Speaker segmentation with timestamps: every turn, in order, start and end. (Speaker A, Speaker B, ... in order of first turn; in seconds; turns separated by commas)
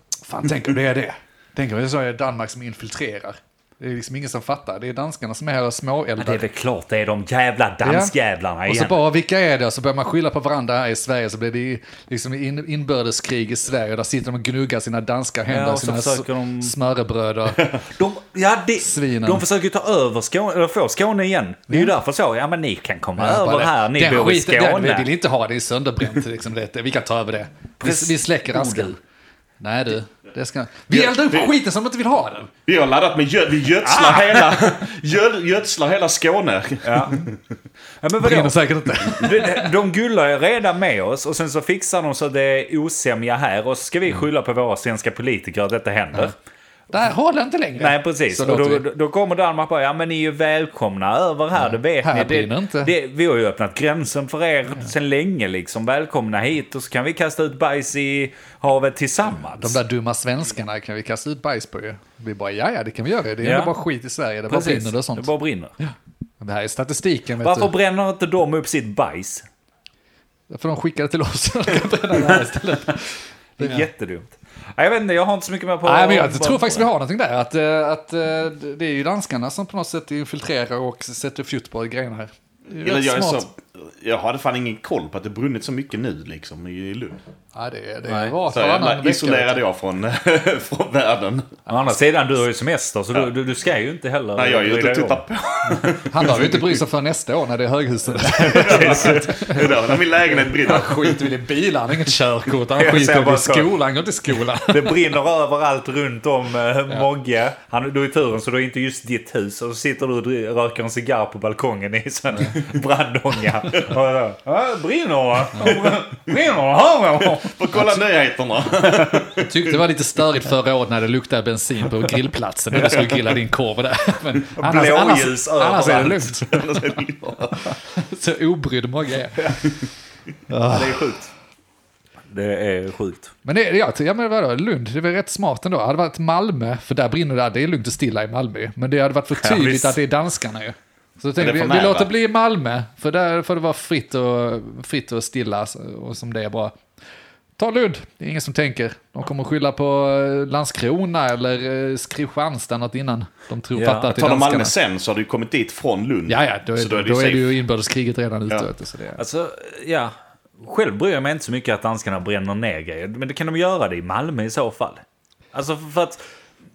Speaker A: 0.3-6.4, Speaker B: 6.2-9.0, Speaker A: 7.8-8.1, Speaker A: 8.7-17.7, Speaker B: 15.5-16.7, Speaker B: 17.8-25.1, Speaker A: 18.8-19.4, Speaker A: 23.2-29.0, Speaker B: 27.8-28.9, Speaker A: 29.6-32.5, Speaker C: 30.9-31.5, Speaker C: 32.7-37.4, Speaker B: 33.8-34.6, Speaker B: 36.8-37.2, Speaker B: 38.0-46.3, Speaker A: 38.2-39.7, Speaker A: 46.9-48.8, Speaker B: 47.8-59.8, Speaker A: 52.0-52.9, Speaker A: 59.6-65.3, Speaker B: 63.4-63.7, Speaker B: 64.5-65.7, Speaker A: 65.8-67.7, Speaker B: 67.4-69.5, Speaker A: 70.5-73.9, Speaker B: 73.6-76.9, Speaker A: 75.8-83.5, Speaker C: 82.8-87.2, Speaker A: 87.5-89.6, Speaker B: 88.1-88.3, Speaker C: 88.5-91.5, Speaker B: 91.7-95.2, Speaker C: 94.4-96.8, Speaker A: 96.1-105.1, Speaker B: 98.3-99.5, Speaker C: 98.4-101.3, Speaker B: 102.8-103.7, Speaker B: 104.6-117.9, Speaker C: 117.4-119.8, Speaker A: 119.4-126.8, Speaker B: 124.6-126.4, Speaker C: 126.5-127.7, Speaker A: 127.9-129.7, Speaker B: 129.4-129.6, Speaker A: 130.5-131.1, Speaker B: 130.7-131.3, Speaker B: 132.3-133.3, Speaker A: 133.4-146.8, Speaker B: 139.4-140.0, Speaker C: 141.4-142.1, Speaker A: 147.6-154.7, Speaker B: 153.8-154.1, Speaker C: 154.1-157.6, Speaker A: 156.3-159.2, Speaker B: 159.2-165.0, Speaker B: 165.5-166.2